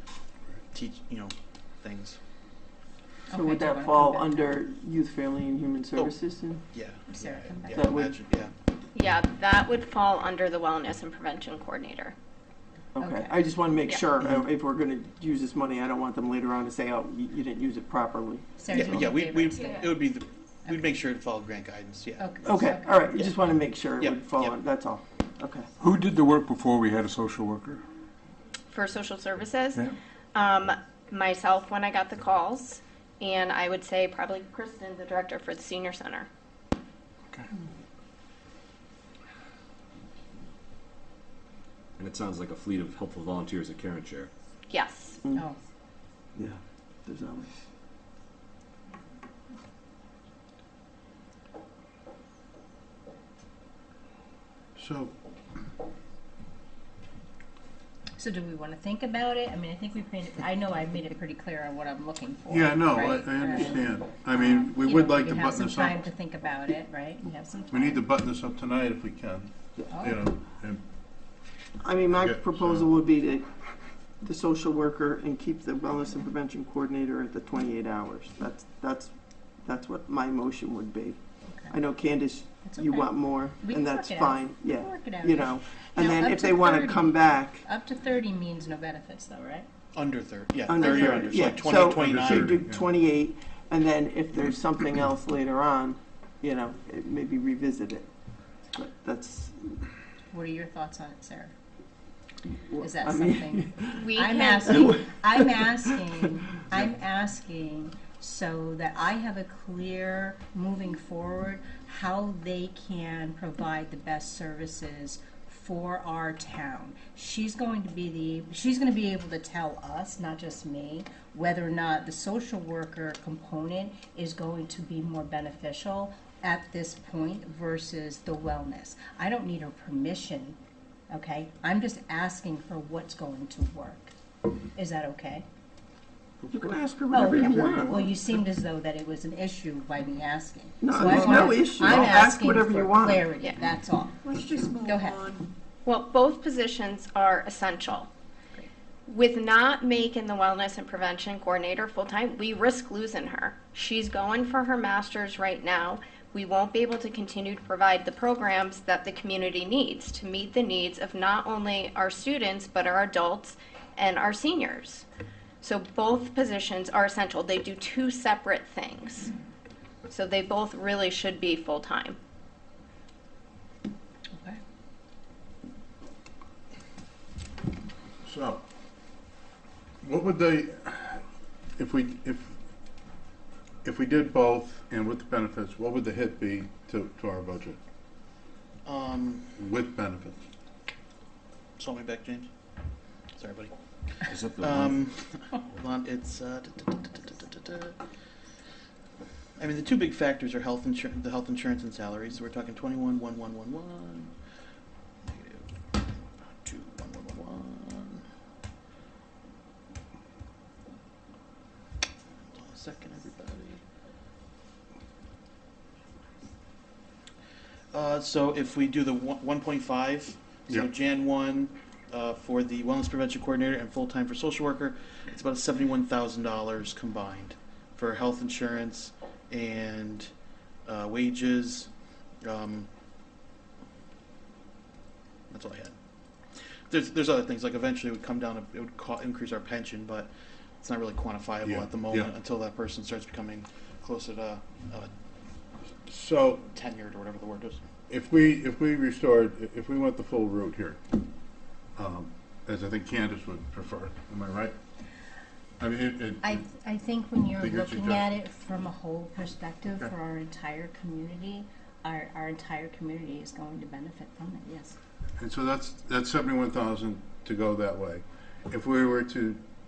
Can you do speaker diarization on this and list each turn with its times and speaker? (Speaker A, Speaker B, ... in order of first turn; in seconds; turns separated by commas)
Speaker A: 0.7-2.2, Speaker B: 3.3-4.6, Speaker C: 3.3-6.6, Speaker A: 6.7-8.5, Speaker B: 7.1-7.9, Speaker C: 7.7-8.2, Speaker D: 8.9-12.2, Speaker C: 13.0-19.1, Speaker B: 13.0-13.4, Speaker B: 18.6-19.9, Speaker A: 18.7-23.3, Speaker B: 20.7-21.0, Speaker B: 22.2-23.3, Speaker C: 22.4-25.7, Speaker A: 24.0-24.6, Speaker E: 25.8-27.8, Speaker D: 28.7-36.3, Speaker F: 42.0-44.3, Speaker D: 44.7-45.2, Speaker C: 46.4-47.5, Speaker G: 54.8-55.1, Speaker B: 58.2-68.0, Speaker G: 62.5-66.0, Speaker G: 67.7-70.8, Speaker B: 69.9-70.2, Speaker C: 71.8-73.5, Speaker G: 72.1-72.9, Speaker C: 74.2-79.1, Speaker C: 79.6-87.7, Speaker B: 81.5-81.8, Speaker B: 82.6-89.7, Speaker A: 89.9-92.6, Speaker C: 90.7-98.1, Speaker B: 90.8-91.8, Speaker G: 91.8-92.8, Speaker C: 98.7-99.9, Speaker B: 100.3-101.5, Speaker C: 102.6-104.1, Speaker B: 102.8-130.6, Speaker D: 104.0-104.8, Speaker C: 104.6-106.2, Speaker B: 131.1-134.1, Speaker B: 134.7-135.4, Speaker C: 136.5-138.2, Speaker B: 137.1-145.4, Speaker C: 140.8-143.3, Speaker D: 145.9-148.1, Speaker D: 149.1-165.1, Speaker D: 165.6-169.3, Speaker D: 170.1-172.2, Speaker G: 178.2-178.6, Speaker G: 180.0-181.2, Speaker G: 181.8-182.6, Speaker G: 183.8-187.8, Speaker A: 188.8-189.5, Speaker G: 189.6-190.4, Speaker A: 191.8-192.5, Speaker A: 193.4-198.0, Speaker F: 194.3-194.9, Speaker A: 199.6-204.3, Speaker A: 205.2-208.2, Speaker A: 212.4-213.8, Speaker A: 217.9-230.3, Speaker A: 230.8-231.9, Speaker A: 232.4-232.9, Speaker A: 235.5-236.0, Speaker A: 236.9-245.1, Speaker G: 241.6-242.3, Speaker G: 246.1-246.7, Speaker A: 246.7-247.9, Speaker G: 248.1-251.0, Speaker G: 252.0-254.8, Speaker G: 255.8-256.6, Speaker B: 256.4-265.0, Speaker G: 257.6-258.3, Speaker G: 265.4-269.6